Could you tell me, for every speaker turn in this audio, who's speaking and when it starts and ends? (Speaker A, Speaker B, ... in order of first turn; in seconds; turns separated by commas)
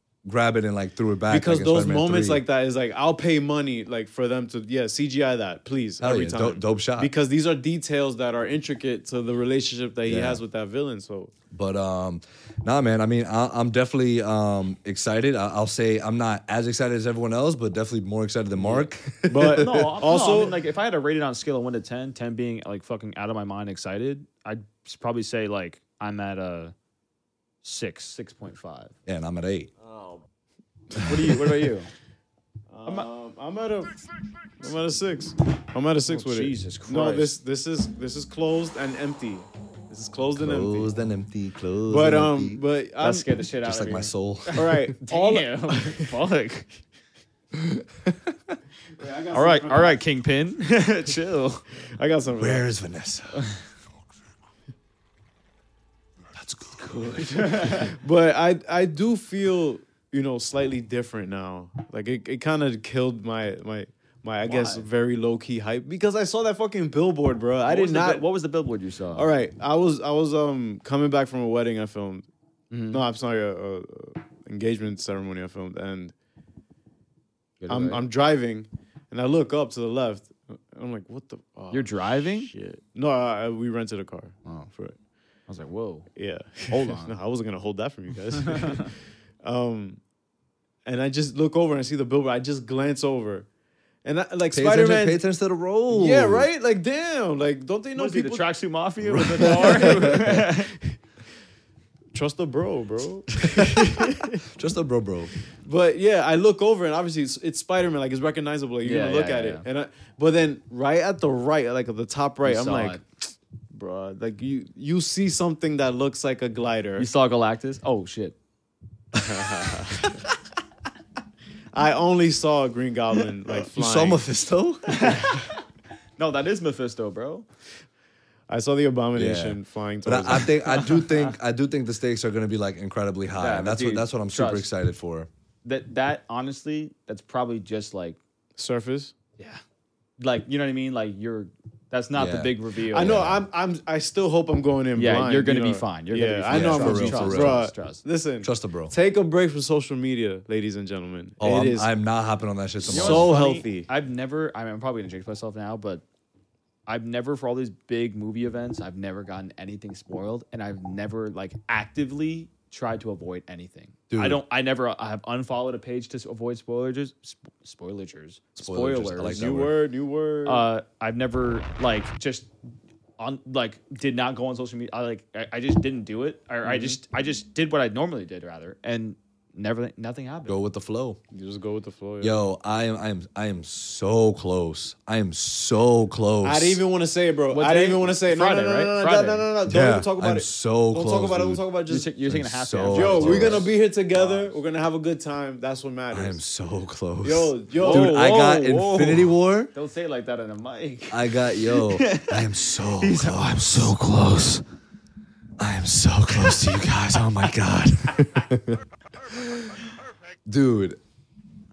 Speaker A: 0.2-2.4, Speaker B: 1.3-11.3, Speaker A: 6.0-7.1, Speaker A: 10.1-10.4, Speaker A: 11.5-19.9, Speaker B: 18.6-20.6, Speaker C: 19.5-26.7, Speaker C: 27.6-28.9, Speaker A: 29.1-29.7, Speaker B: 29.8-30.2, Speaker C: 31.0-31.9, Speaker B: 32.7-34.0, Speaker B: 34.6-40.9, Speaker C: 36.0-37.3, Speaker A: 40.4-42.6, Speaker B: 41.9-43.4, Speaker C: 43.0-46.7, Speaker A: 43.6-44.9, Speaker B: 44.5-46.1, Speaker A: 47.5-48.6, Speaker B: 49.0-50.0, Speaker C: 49.3-51.6, Speaker B: 51.8-52.7, Speaker A: 52.4-53.5, Speaker A: 56.3-57.6, Speaker C: 57.1-57.9, Speaker B: 57.7-68.2, Speaker C: 64.4-64.8, Speaker C: 67.6-69.3, Speaker B: 69.1-72.3, Speaker C: 72.7-73.0, Speaker B: 72.9-76.1, Speaker C: 77.6-78.0, Speaker B: 77.7-85.0, Speaker C: 81.7-82.5, Speaker C: 85.5-86.1, Speaker B: 86.1-90.0, Speaker C: 86.7-87.2, Speaker C: 88.5-88.8, Speaker B: 90.8-93.5, Speaker B: 94.0-95.2, Speaker A: 94.5-96.5, Speaker B: 95.9-98.5, Speaker C: 97.9-100.7, Speaker A: 99.1-99.4, Speaker B: 99.3-100.5, Speaker B: 102.1-104.4, Speaker A: 103.6-105.3, Speaker B: 105.6-117.1, Speaker C: 108.8-109.6, Speaker C: 112.4-113.0, Speaker C: 117.0-118.3, Speaker A: 119.1-119.4, Speaker B: 119.2-120.1, Speaker B: 121.7-124.2, Speaker A: 123.6-125.2, Speaker C: 124.9-125.5, Speaker C: 126.2-127.5, Speaker B: 128.5-130.5, Speaker A: 129.1-135.3, Speaker C: 130.7-131.3, Speaker C: 133.4-134.7, Speaker C: 135.6-138.2, Speaker B: 138.6-139.1, Speaker C: 140.2-143.4, Speaker A: 142.1-143.4, Speaker B: 142.9-151.9, Speaker C: 144.9-148.0, Speaker A: 146.5-147.6, Speaker A: 148.4-148.9, Speaker A: 151.4-153.3, Speaker C: 152.8-156.0, Speaker B: 152.9-153.9, Speaker C: 156.9-169.4, Speaker A: 164.1-164.4, Speaker A: 168.6-169.8, Speaker B: 169.3-170.7, Speaker C: 170.4-172.5, Speaker C: 173.2-180.6, Speaker B: 176.6-177.0, Speaker A: 180.4-181.2, Speaker B: 181.3-182.4, Speaker A: 182.2-186.8, Speaker B: 186.4-192.1, Speaker C: 187.5-189.4, Speaker A: 189.7-191.6, Speaker C: 191.9-194.6, Speaker A: 192.2-193.7, Speaker B: 192.8-196.4, Speaker A: 196.1-199.7, Speaker B: 197.2-198.2, Speaker C: 197.8-204.1, Speaker A: 201.1-204.6, Speaker A: 205.6-209.8, Speaker C: 206.4-206.9, Speaker A: 210.4-211.0